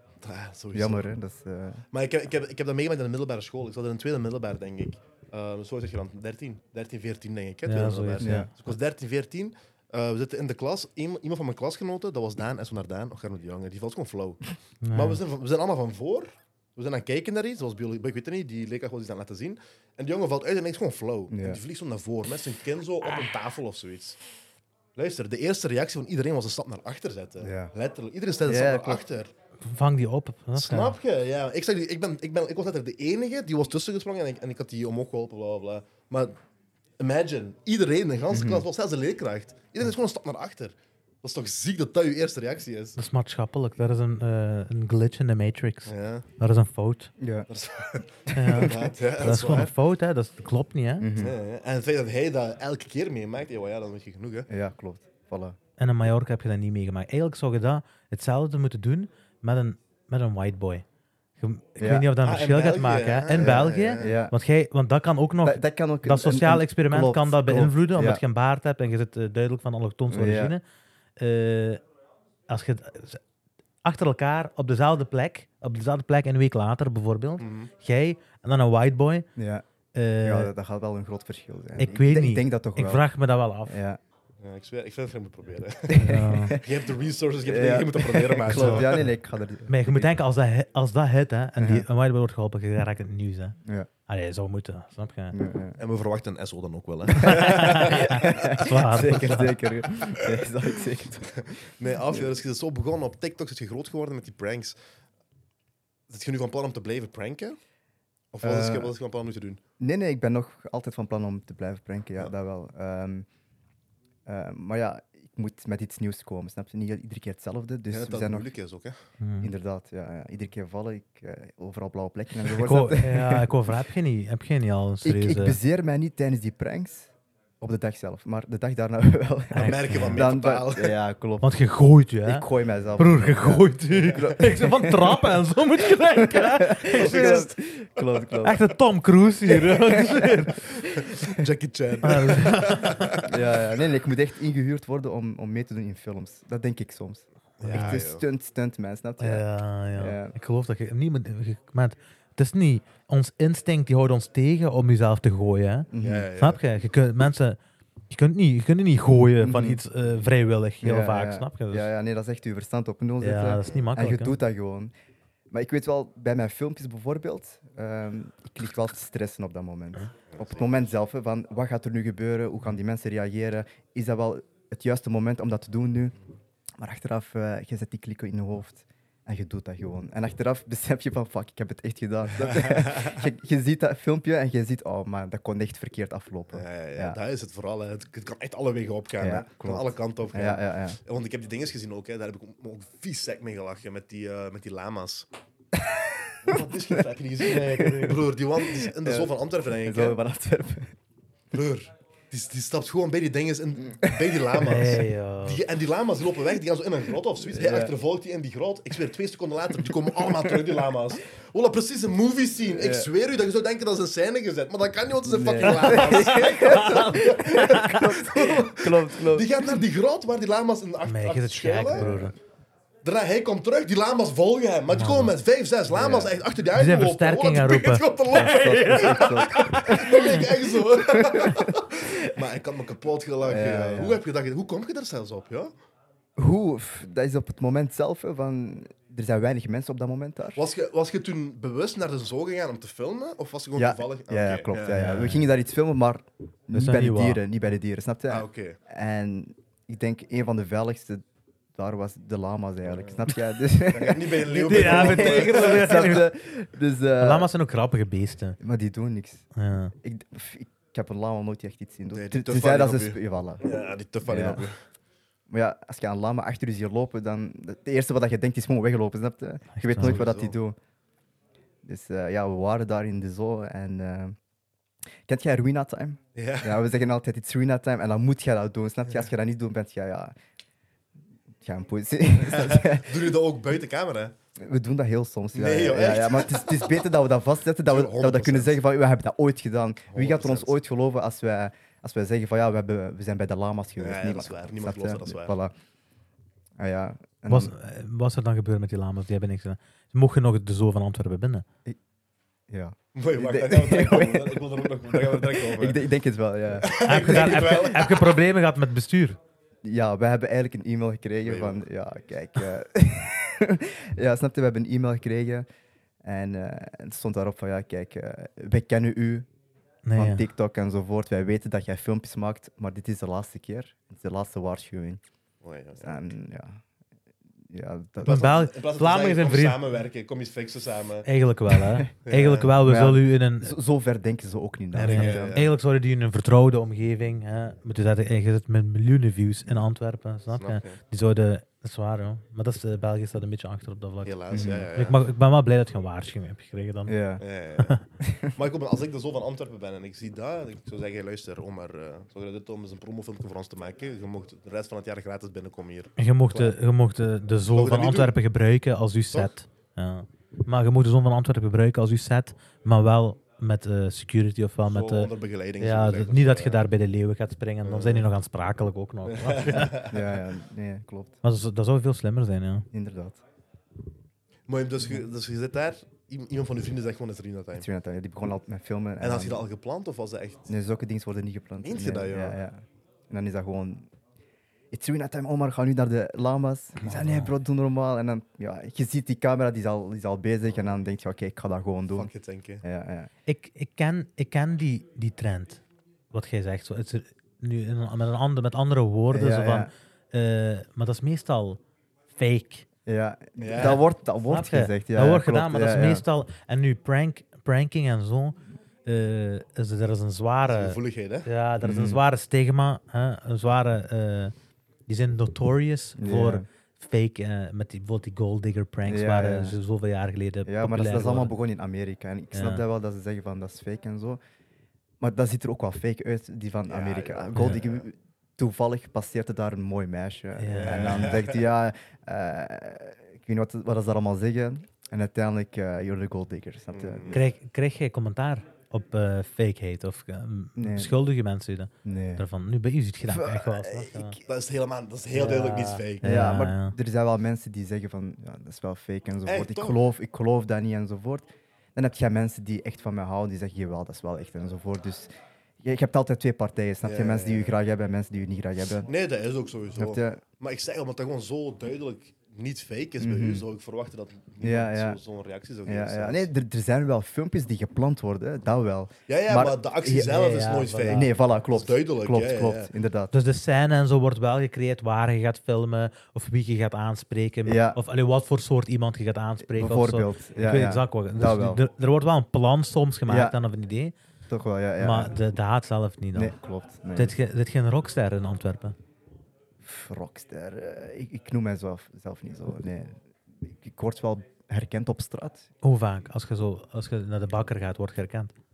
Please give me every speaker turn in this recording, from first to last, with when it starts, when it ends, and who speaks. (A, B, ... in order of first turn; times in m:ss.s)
0:00.2-0:01.1 A
0:00.7-0:01.8 B
0:01.9-0:24.2 A
0:07.7-0:08.5 C
0:08.2-0:08.5 B
0:14.8-0:15.2 C
0:21.3-0:21.6 B
0:25.0-0:29.3 A
0:27.4-0:27.7 B
0:28.4-0:29.0 B
0:29.6-0:31.0 C
0:30.6-0:36.4 A
0:37.0-0:43.0 A
0:38.3-0:38.7 B
0:43.0-0:47.1 C
0:45.9-0:46.3 A
0:47.2-0:47.5 B
0:47.5-0:49.7 A
0:48.3-0:48.8 B
0:48.4-0:51.1 C
0:51.0-0:51.4 B
0:51.2-0:54.5 A
0:54.5-0:55.6 B
0:55.8-1:00.8 C
1:01.4-1:10.6 C
1:01.8-1:02.1 B
1:02.2-1:04.2 A
1:03.4-1:04.4 B
1:05.4-1:08.2 B
1:10.1-1:10.6 B
1:11.2-1:11.8 C
1:12.5-1:13.2 C
1:13.8-1:19.3 C
1:17.4-1:17.7 A
1:19.4-1:19.6 B
1:20.0-1:20.5 C
1:20.2-1:23.1 B
1:21.8-1:23.8 C
1:23.7-1:24.0 B
1:24.4-1:29.0 A
1:25.9-1:26.9 B
1:25.9-1:26.6 C
1:27.4-1:30.2 B
1:28.5-1:29.1 C
1:29.7-1:33.6 C
1:31.6-1:31.9 B
1:34.1-1:35.4 C
1:35.3-1:35.8 B
1:35.8-1:38.6 A
1:37.2-1:39.6 C
1:37.2-1:41.5 B
1:40.2-1:40.5 A
1:41.3-1:44.8 A
1:42.0-1:42.3 B
1:46.1-1:47.6 A
1:48.3-1:49.6 A
1:48.4-1:48.9 B
1:49.8-1:53.3 B
1:54.3-1:58.5 B
1:57.9-1:58.9 A
1:59.2-1:59.5 C
1:59.4-2:03.5 B
2:02.5-2:05.6 C
2:05.0-2:11.6 B
2:09.5-2:10.3 C
2:09.6-2:11.0 A
2:11.4-2:12.5 C
2:12.2-2:18.6 B
2:13.0-2:17.5 C
2:16.9-2:18.3 A
2:18.4-2:20.6 C
2:19.5-2:21.4 B
2:20.7-2:23.3 A
2:22.0-2:23.3 C
2:23.2-2:30.4 B
2:27.6-2:28.2 A
2:27.7-2:28.0 C
2:29.2-2:37.6 C
2:35.9-2:36.3 B
2:36.0-2:36.6 A
2:38.1-2:41.9 C
2:39.4-2:39.8 B
2:40.8-2:44.9 B
2:43.2-2:44.4 C
2:45.5-2:56.2 B
2:50.3-2:50.7 A
2:56.8-3:07.2 B
3:02.4-3:03.2 A
3:06.5-3:15.3 A
3:09.2-3:11.0 B
3:15.7-3:20.9 B
3:16.4-3:20.2 A
3:21.5-3:42.1 A
3:24.0-3:24.4 B
3:24.6-3:25.6 C
3:27.5-3:27.9 B
3:30.2-3:30.7 B
3:32.7-3:33.1 B
3:35.2-3:39.7 B
3:35.6-3:38.2 C
3:41.0-3:42.4 C
3:42.0-3:42.3 B
3:43.0-3:55.7 A
3:44.9-3:45.4 C
3:45.9-3:46.4 B
3:46.8-3:50.4 C
3:48.3-3:52.4 B
3:53.4-3:54.2 B
3:56.4-4:00.6 B
4:00.6-4:05.1 A
4:03.8-4:17.5 B
4:04.9-4:05.5 C
4:06.7-4:07.4 C
4:08.3-4:08.8 A
4:12.9-4:16.1 A
4:14.4-4:16.3 C
4:17.2-4:18.6 C
4:18.6-4:19.4 B
4:19.6-4:19.9 C
4:20.0-4:23.7 B
4:22.1-4:24.8 A
4:24.2-4:24.7 B
4:25.5-4:30.8 B
4:29.7-4:30.2 C
4:30.0-4:30.6 A
4:31.8-4:34.4 B
4:35.3-4:40.3 B
4:36.4-4:36.8 A
4:41.6-4:43.4 B
4:42.4-4:44.4 A
4:44.6-4:55.7 B
4:45.5-4:47.1 A
4:47.8-4:48.8 A
4:50.1-4:50.8 A
4:54.0-4:55.6 A
4:56.8-4:57.7 B
4:57.5-5:01.6 C
5:02.7-5:07.9 B
5:03.2-5:06.0 A
5:06.8-5:08.4 A
5:07.0-5:09.4 C
5:09.8-5:15.6 B
5:11.4-5:11.8 A
5:16.2-5:19.5 B
5:20.0-5:20.4 C
5:20.2-5:25.2 B
5:25.6-5:26.2 A
5:26.0-5:26.8 B
5:27.7-5:28.6 B
5:28.2-5:29.8 C
5:28.2-5:31.3 A
5:31.2-5:33.8 C
5:32.2-5:32.8 A
5:32.8-5:35.6 B
5:35.0-5:44.4 C
5:35.0-5:35.7 A
5:40.6-5:41.0 A
5:44.2-5:45.2 A
5:44.5-5:44.9 B
5:44.9-5:47.2 C
5:47.1-5:47.4 B
5:47.4-5:56.8 A
5:48.2-5:48.5 B
5:56.2-6:10.0 C
5:57.7-5:58.3 A
6:04.9-6:06.8 A
6:07.8-6:08.3 A
6:09.3-6:10.3 A
6:09.9-6:11.4 B
6:11.4-6:12.9 C
6:12.9-6:13.4 B
6:14.7-6:17.9 A
6:17.7-6:19.7 B
6:19.2-6:20.7 A
6:20.7-6:24.1 B
6:21.8-6:22.6 A
6:24.9-6:32.3 B
6:27.0-6:27.5 C
6:32.1-6:32.8 A
6:32.8-6:33.3 B
6:33.5-6:42.8 C
6:39.3-6:39.9 B
6:43.1-6:46.2 B
6:43.6-6:44.0 A
6:44.5-6:54.5 C
6:50.7-6:51.5 A
6:51.8-6:52.2 B
6:55.1-7:01.5 C
6:56.2-6:56.7 B
6:59.1-6:59.8 B
7:00.6-7:04.4 B
7:02.5-7:02.8 C
7:05.2-7:17.4 B
7:06.9-7:08.0 A
7:07.6-7:07.8 C
7:10.6-7:11.3 C
7:10.7-7:11.6 A
7:16.9-7:17.4 A
7:17.3-7:24.4 C
7:20.8-7:21.1 B
7:22.0-7:22.4 B
7:23.3-7:24.4 B
7:24.5-7:26.3 A
7:25.3-7:27.0 C
7:26.2-7:39.1 B
7:29.5-7:30.0 A
7:37.0-7:37.8 A
7:39.0-7:46.5 A
7:40.0-7:40.4 B
7:43.2-7:43.7 B
7:44.6-7:45.2 B
7:45.9-7:50.3 B
7:49.3-7:52.9 A
7:50.1-7:51.3 C
7:51.1-7:53.3 B
7:53.3-8:04.1 C
7:57.7-7:58.0 B
7:59.6-8:01.8 B
8:03.3-8:03.6 B
8:04.5-8:05.4 B
8:05.0-8:06.6 C
8:06.4-8:07.4 B
8:07.2-8:09.0 C
8:09.8-8:15.7 B
8:15.8-8:18.5 C